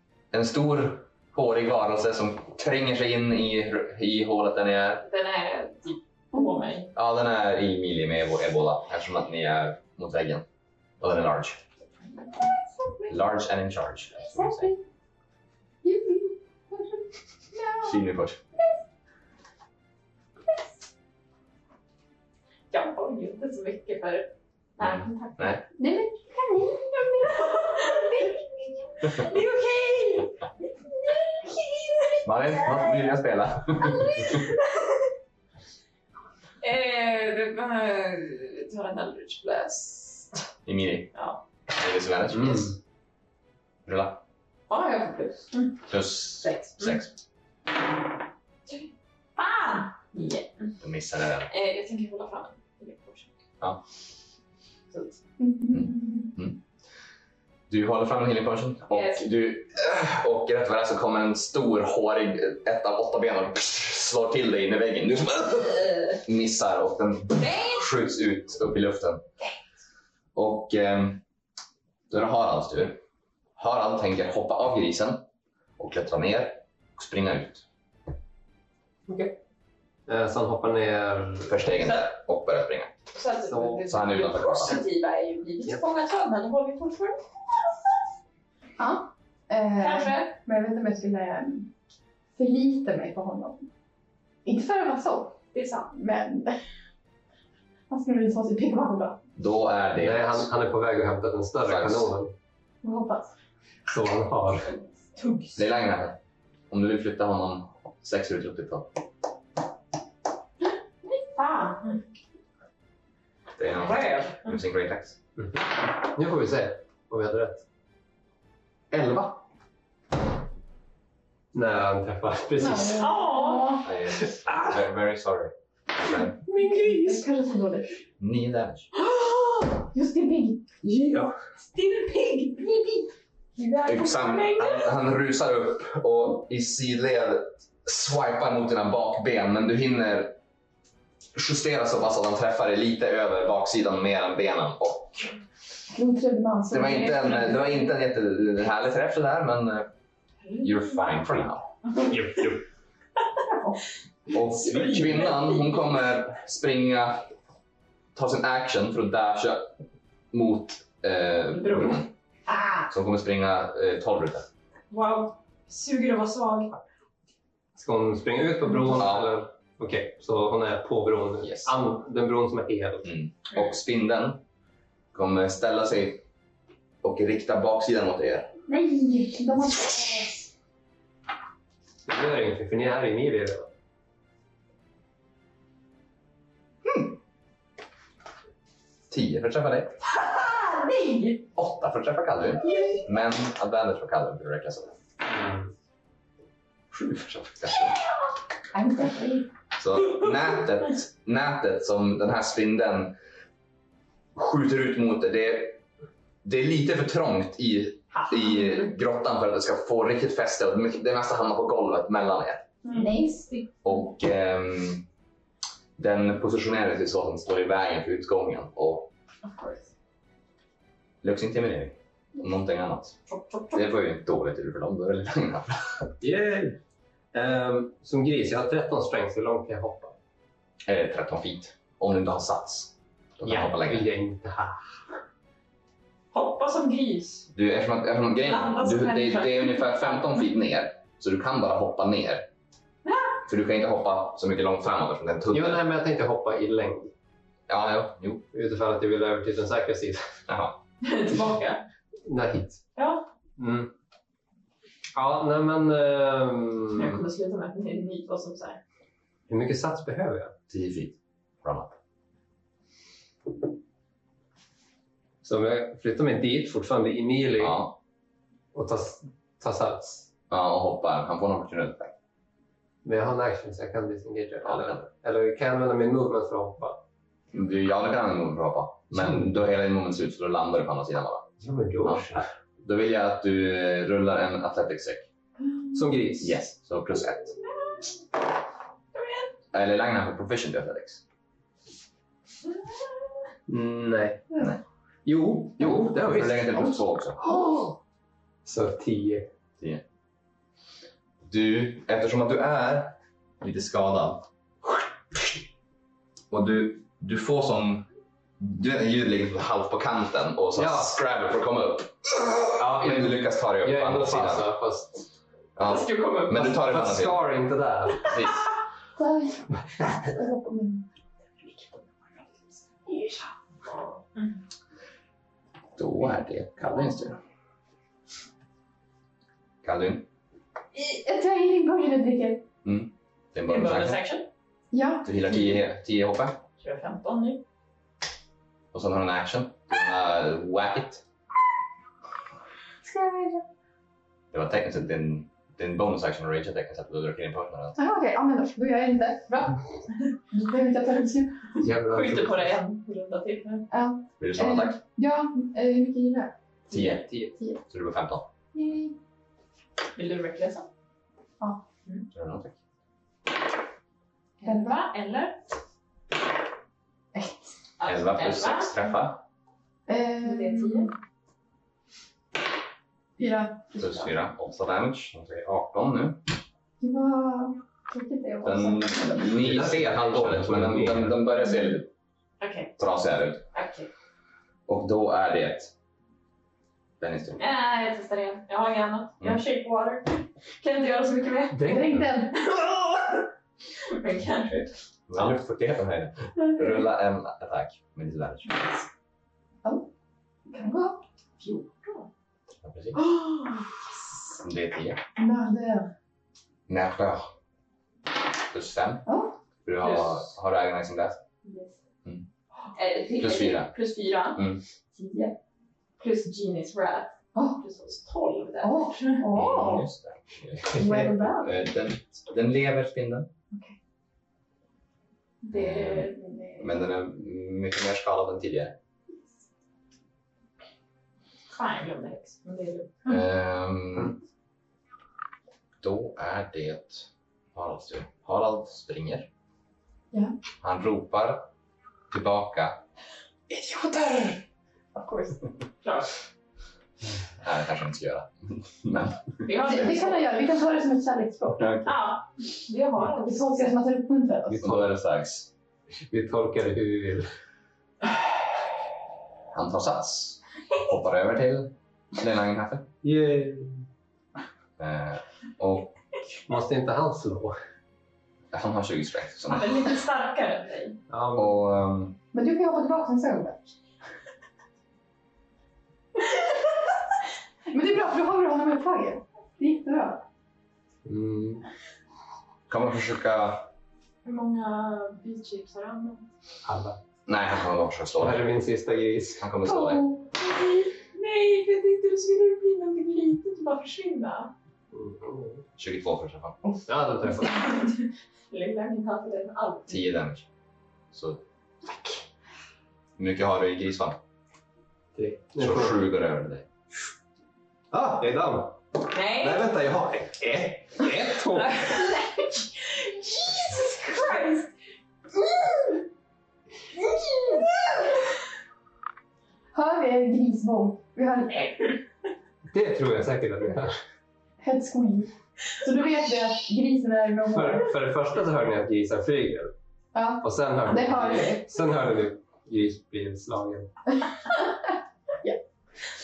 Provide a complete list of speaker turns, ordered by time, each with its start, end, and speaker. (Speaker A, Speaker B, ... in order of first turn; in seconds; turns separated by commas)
Speaker A: 0.3-5.0, Speaker B: 5.0-6.9, Speaker C: 6.3-6.7, Speaker A: 7.0-10.5, Speaker A: 11.0-11.6, Speaker B: 12.3-12.9, Speaker A: 13.1-14.7, Speaker C: 14.2-14.8, Speaker C: 15.8-17.9, Speaker A: 17.8-18.4, Speaker B: 22.7-25.6, Speaker A: 24.8-25.6, Speaker C: 25.8-28.4, Speaker B: 27.3-28.4, Speaker B: 29.0-33.1, Speaker A: 32.2-34.5, Speaker B: 33.8-35.0, Speaker B: 36.6-40.4, Speaker A: 40.7-41.1, Speaker B: 41.1-41.4, Speaker A: 41.7-42.8, Speaker D: 42.3-42.8, Speaker A: 43.9-44.2, Speaker B: 44.7-45.8, Speaker A: 45.9-47.1, Speaker B: 46.4-47.0, Speaker B: 48.7-50.7, Speaker A: 50.8-51.5, Speaker B: 51.5-53.3, Speaker B: 54.9-55.2, Speaker C: 55.4-56.3, Speaker A: 55.7-56.6, Speaker A: 57.7-69.2, Speaker B: 58.9-59.3, Speaker B: 67.4-67.8, Speaker A: 70.3-71.2, Speaker A: 72.1-73.0, Speaker A: 73.6-75.2, Speaker A: 75.8-77.7, Speaker D: 79.1-79.4, Speaker D: 80.1-81.7, Speaker A: 81.5-82.9, Speaker B: 81.8-82.1, Speaker B: 83.1-87.2, Speaker D: 83.4-83.9, Speaker A: 83.9-84.8, Speaker C: 88.8-91.7, Speaker B: 89.8-90.3, Speaker C: 92.4-93.7, Speaker C: 94.5-95.3, Speaker B: 95.5-95.9, Speaker C: 95.9-96.6, Speaker C: 97.9-99.2, Speaker A: 99.4-100.5, Speaker D: 100.0-102.3, Speaker A: 101.6-102.1, Speaker C: 102.8-103.3, Speaker D: 103.9-104.7, Speaker B: 105.2-105.6, Speaker A: 105.5-106.2, Speaker A: 106.7-108.9, Speaker B: 111.4-112.0, Speaker A: 113.6-115.2, Speaker B: 113.7-114.5, Speaker D: 115.4-117.7, Speaker A: 118.9-119.4, Speaker D: 121.5-123.1, Speaker C: 122.6-123.9, Speaker B: 123.0-123.8, Speaker A: 123.8-126.4, Speaker D: 124.4-124.8, Speaker B: 126.5-127.2, Speaker C: 126.5-128.0, Speaker A: 128.2-128.9, Speaker B: 129.0-129.7, Speaker C: 129.9-130.6, Speaker D: 130.8-131.3, Speaker B: 131.7-134.9, Speaker A: 133.9-140.4, Speaker A: 141.3-145.3, Speaker C: 145.9-147.3, Speaker A: 146.7-149.9, Speaker B: 147.1-147.7, Speaker B: 150.4-152.1, Speaker A: 150.6-151.7, Speaker D: 152.0-152.6, Speaker C: 153.5-153.8, Speaker A: 154.3-157.3, Speaker B: 154.6-155.8, Speaker A: 158.2-159.7, Speaker A: 160.3-162.1, Speaker B: 161.5-162.0, Speaker C: 162.5-162.9, Speaker A: 162.9-164.5, Speaker B: 164.9-166.8, Speaker D: 167.8-173.1, Speaker A: 168.9-169.4, Speaker A: 171.4-171.7, Speaker A: 173.1-174.4, Speaker A: 175.1-176.2, Speaker A: 177.0-178.5, Speaker C: 178.7-180.5, Speaker D: 182.1-183.7, Speaker A: 186.8-187.1, Speaker A: 189.1-190.0, Speaker B: 190.1-191.4, Speaker A: 191.6-195.0, Speaker B: 192.7-193.0, Speaker D: 195.3-195.7, Speaker A: 196.9-198.1, Speaker C: 198.7-199.5, Speaker A: 199.8-203.2, Speaker A: 204.3-205.8, Speaker A: 206.4-212.7, Speaker B: 208.2-208.8, Speaker B: 212.8-213.5, Speaker C: 212.9-213.6, Speaker A: 213.8-215.1, Speaker A: 216.0-219.1, Speaker B: 219.4-219.9, Speaker A: 221.2-223.2, Speaker B: 223.3-223.9, Speaker A: 223.7-226.1, Speaker D: 226.2-226.8, Speaker D: 227.3-230.2, Speaker A: 230.9-234.1, Speaker D: 233.4-234.9, Speaker B: 236.3-237.5, Speaker A: 237.5-242.5, Speaker B: 238.4-240.3, Speaker B: 243.1-243.3, Speaker A: 243.5-245.8, Speaker D: 245.5-247.1, Speaker A: 247.7-248.4, Speaker D: 248.5-250.2, Speaker A: 250.5-250.8, Speaker B: 251.0-251.8, Speaker D: 252.2-252.8, Speaker B: 253.0-253.2, Speaker D: 253.6-253.9, Speaker D: 255.2-257.2, Speaker B: 256.9-258.8, Speaker D: 259.5-260.5, Speaker A: 260.7-261.9, Speaker D: 265.4-267.8, Speaker A: 267.6-267.9, Speaker D: 268.7-270.3, Speaker A: 270.5-272.1, Speaker D: 273.0-277.0, Speaker A: 274.6-275.1, Speaker A: 277.5-281.5, Speaker D: 279.1-279.5, Speaker D: 281.6-282.5, Speaker A: 282.0-282.3, Speaker A: 282.8-285.3, Speaker D: 285.9-286.6, Speaker A: 286.4-287.6, Speaker B: 289.1-289.5, Speaker A: 289.7-291.2, Speaker B: 292.6-293.1, Speaker D: 293.7-294.6, Speaker D: 295.2-298.0, Speaker A: 295.8-297.4, Speaker D: 298.6-299.5, Speaker A: 301.4-304.5, Speaker A: 306.5-308.1, Speaker A: 308.6-314.7, Speaker D: 310.8-311.1, Speaker D: 312.8-315.3, Speaker A: 315.8-317.4, Speaker B: 315.8-316.6, Speaker D: 316.5-318.4, Speaker A: 318.2-318.7, Speaker C: 319.2-321.1, Speaker C: 321.6-321.9, Speaker C: 323.1-323.5, Speaker B: 323.9-324.6, Speaker A: 326.0-327.4, Speaker A: 329.8-330.2, Speaker C: 330.9-332.6, Speaker A: 332.8-334.2, Speaker B: 333.7-334.5, Speaker C: 334.9-335.3, Speaker A: 335.2-336.6, Speaker B: 336.8-337.6, Speaker A: 338.9-341.2, Speaker C: 343.0-343.7, Speaker A: 344.5-348.0, Speaker C: 348.0-349.8, Speaker C: 350.5-351.6, Speaker D: 351.8-352.8, Speaker B: 352.0-353.9, Speaker C: 353.9-356.5, Speaker A: 354.4-355.0, Speaker A: 356.9-357.3, Speaker D: 356.9-357.5, Speaker A: 357.9-358.5, Speaker C: 358.7-359.2, Speaker B: 360.1-360.9, Speaker A: 362.3-362.8, Speaker B: 364.6-365.6, Speaker C: 364.6-365.0, Speaker C: 367.3-367.7, Speaker B: 368.0-369.0, Speaker A: 368.0-369.4, Speaker C: 370.1-371.1, Speaker B: 370.4-371.1, Speaker C: 373.4-374.3, Speaker A: 374.0-376.4, Speaker C: 377.0-379.5, Speaker A: 378.6-382.1, Speaker D: 379.4-381.4, Speaker B: 382.6-382.9, Speaker A: 383.0-383.6, Speaker B: 383.7-384.1, Speaker A: 384.9-385.9, Speaker A: 387.2-387.6, Speaker B: 387.6-392.0, Speaker A: 389.4-389.6, Speaker D: 391.7-392.3, Speaker C: 391.9-392.6, Speaker B: 394.0-394.9, Speaker A: 394.7-399.0, Speaker B: 396.6-396.9, Speaker C: 400.7-401.2, Speaker B: 401.6-402.3, Speaker A: 402.8-403.2, Speaker B: 403.2-404.0, Speaker A: 404.6-405.2, Speaker C: 405.4-406.1, Speaker A: 406.9-407.5, Speaker A: 408.7-409.2, Speaker C: 409.3-409.6, Speaker A: 409.9-411.4, Speaker B: 410.0-410.4, Speaker B: 411.6-411.9, Speaker B: 412.9-415.6, Speaker A: 413.4-413.9, Speaker A: 414.6-414.8, Speaker B: 416.2-419.4, Speaker C: 417.6-417.8, Speaker C: 418.8-420.1, Speaker A: 419.5-423.5, Speaker D: 420.9-421.3, Speaker C: 420.9-421.8, Speaker B: 425.6-426.6, Speaker A: 425.7-429.0, Speaker C: 426.4-426.9, Speaker B: 431.7-433.2, Speaker A: 433.3-434.4, Speaker A: 436.0-439.5, Speaker A: 440.8-441.7, Speaker A: 442.3-443.0, Speaker C: 443.7-444.6, Speaker C: 445.1-445.6, Speaker B: 446.0-446.3, Speaker A: 447.6-449.9, Speaker B: 449.7-450.5, Speaker C: 449.8-451.9, Speaker A: 451.8-452.1, Speaker B: 452.1-454.0, Speaker C: 453.4-454.9, Speaker D: 454.7-455.1, Speaker A: 454.8-455.7, Speaker D: 456.2-457.5, Speaker A: 459.7-463.1, Speaker D: 463.2-464.0, Speaker A: 465.0-466.1, Speaker D: 466.7-467.8, Speaker A: 468.7-470.1, Speaker B: 469.7-471.2, Speaker D: 471.3-471.8, Speaker A: 471.5-472.4, Speaker C: 472.5-473.9, Speaker C: 477.9-480.4, Speaker D: 481.2-481.9, Speaker A: 482.9-483.9, Speaker B: 484.4-486.5, Speaker D: 486.9-487.2, Speaker A: 487.5-488.7, Speaker D: 488.4-489.7, Speaker A: 489.6-490.2, Speaker C: 489.8-490.5, Speaker B: 490.6-494.7, Speaker D: 495.1-495.8, Speaker A: 496.0-496.8, Speaker D: 497.1-497.9, Speaker B: 497.6-500.2, Speaker A: 500.1-500.7, Speaker A: 501.3-501.6, Speaker A: 503.4-504.4, Speaker D: 505.4-506.2, Speaker A: 505.8-506.9, Speaker D: 508.1-512.1, Speaker B: 509.3-509.9, Speaker B: 511.7-514.9, Speaker B: 517.6-517.9, Speaker C: 519.9-522.2, Speaker D: 522.9-524.2, Speaker C: 524.8-528.1, Speaker D: 527.7-529.9, Speaker C: 530.3-531.9, Speaker D: 530.6-534.1